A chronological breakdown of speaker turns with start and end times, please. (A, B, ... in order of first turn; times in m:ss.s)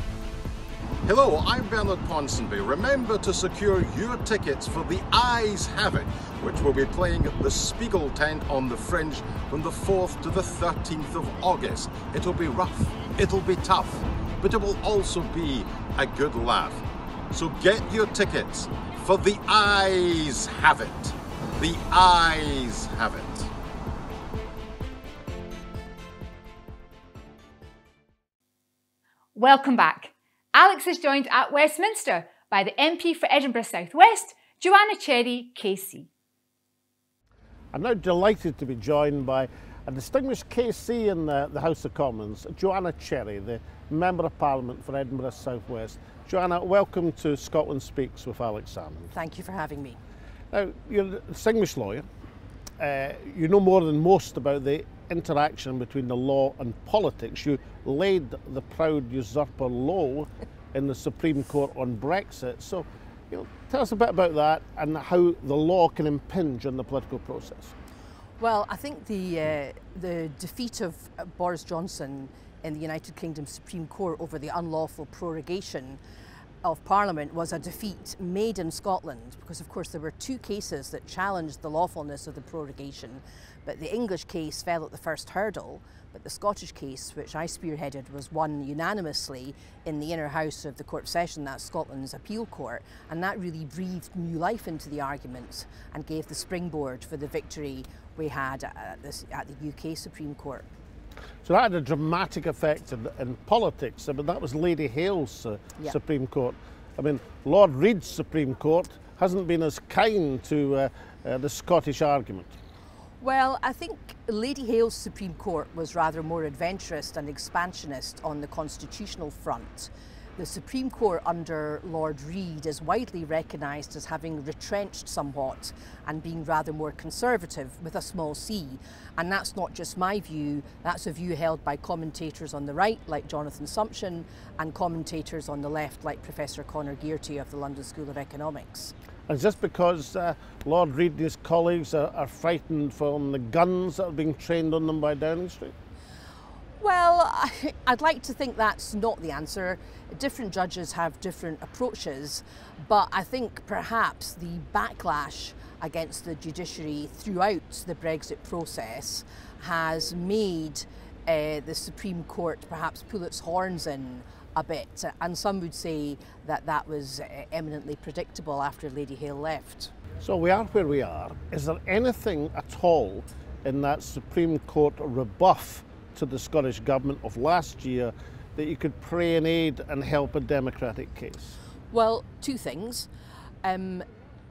0:01.0-0:23.5 A
0:29.4-0:36.1 B
0:37.7-0:49.1 C
0:49.1-0:50.0 D
0:50.5-0:52.0 C
0:52.8-1:07.7 C
1:08.4-1:16.0 D
1:16.6-1:40.7 D
1:41.4-1:52.5 C
1:53.2-2:18.9 D
2:19.3-2:25.7 C
2:26.8-2:49.9 D
2:50.2-3:01.5 C
3:01.9-3:03.1 D
3:03.6-3:04.1 D